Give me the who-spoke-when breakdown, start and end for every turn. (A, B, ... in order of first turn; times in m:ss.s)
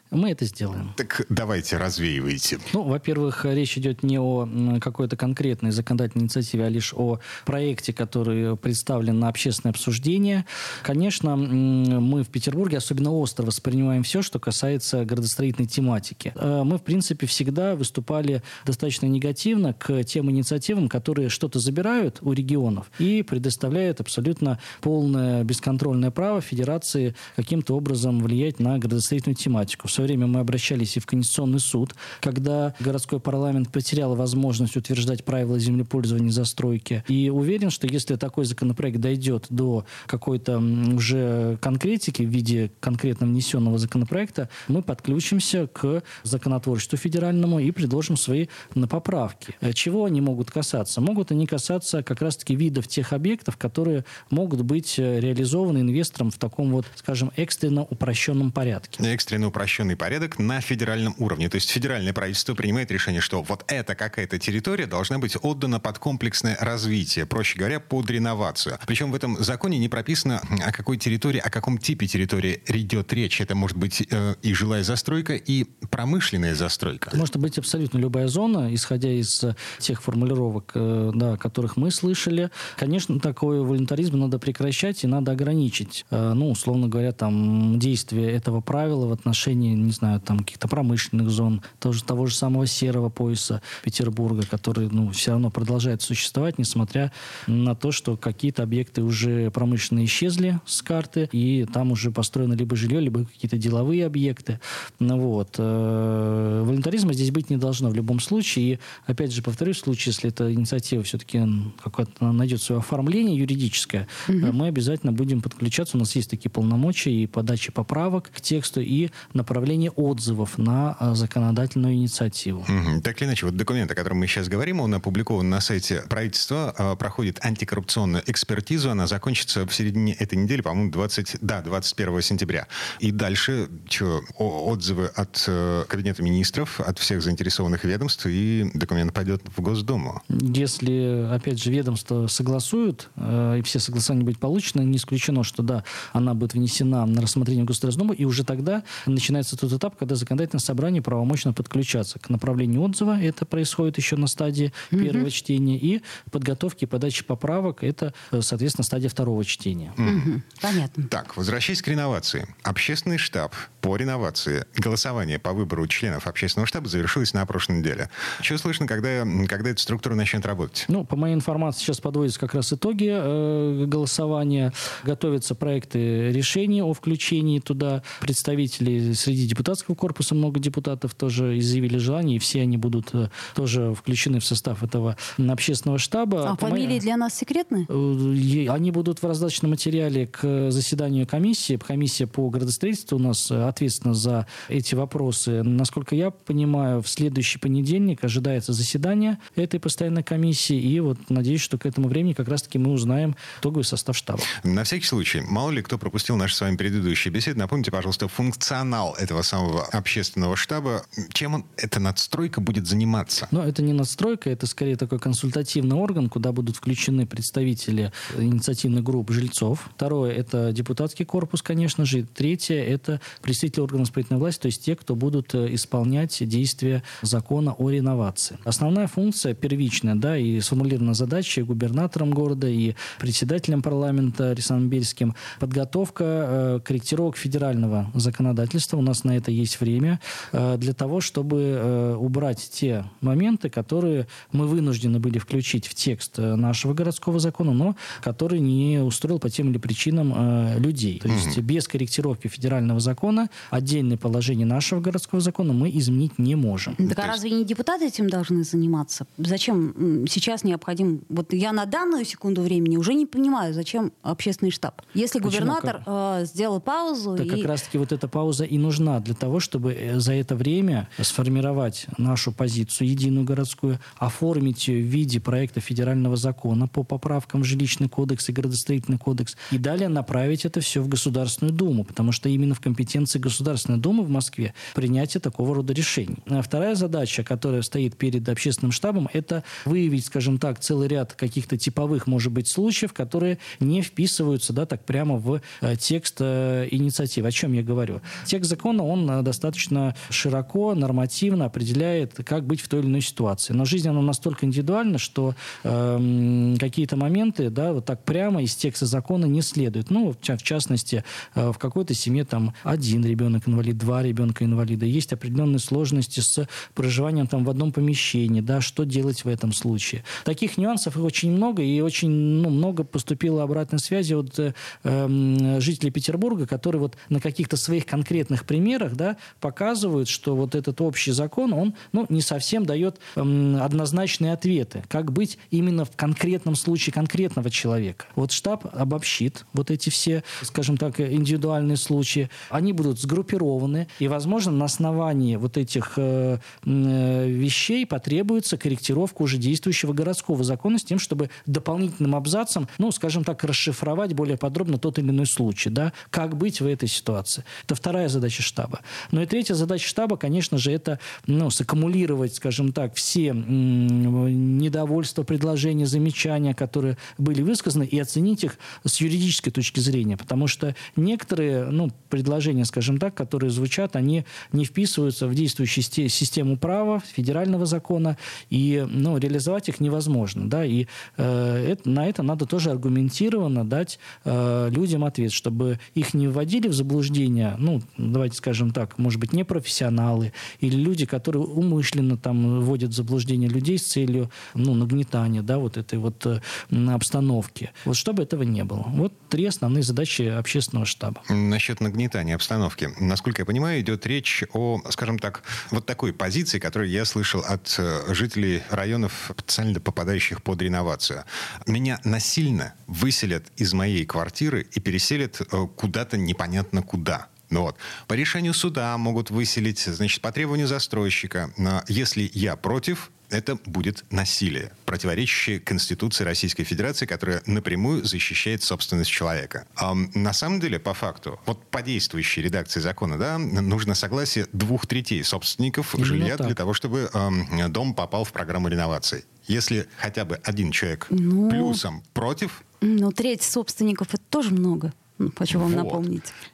0:00.1-0:01.0 A
0:01.0-0:02.7 B
0:02.7-0:59.0 A
0:59.0-1:17.2 B
1:17.1-2:02.7 A
2:02.7-2:20.2 B
2:20.3-2:40.0 A
2:34.9-2:35.2 C
2:40.0-2:40.4 B
2:40.0-2:41.1 C
2:41.1-2:50.9 B
2:50.9-3:07.0 A
3:06.4-3:07.9 C
3:07.9-3:24.5 A
3:24.5-3:33.5 B
3:33.5-4:17.0 A
4:11.3-4:11.6 B
4:17.0-4:27.7 C
4:17.0-4:17.4 B
4:25.4-4:26.0 A
4:27.4-6:41.4 A
6:41.5-7:22.8 B
7:16.2-7:16.8 A
7:21.3-7:22.0 C
7:23.0-7:26.5 C
7:25.7-7:26.2 B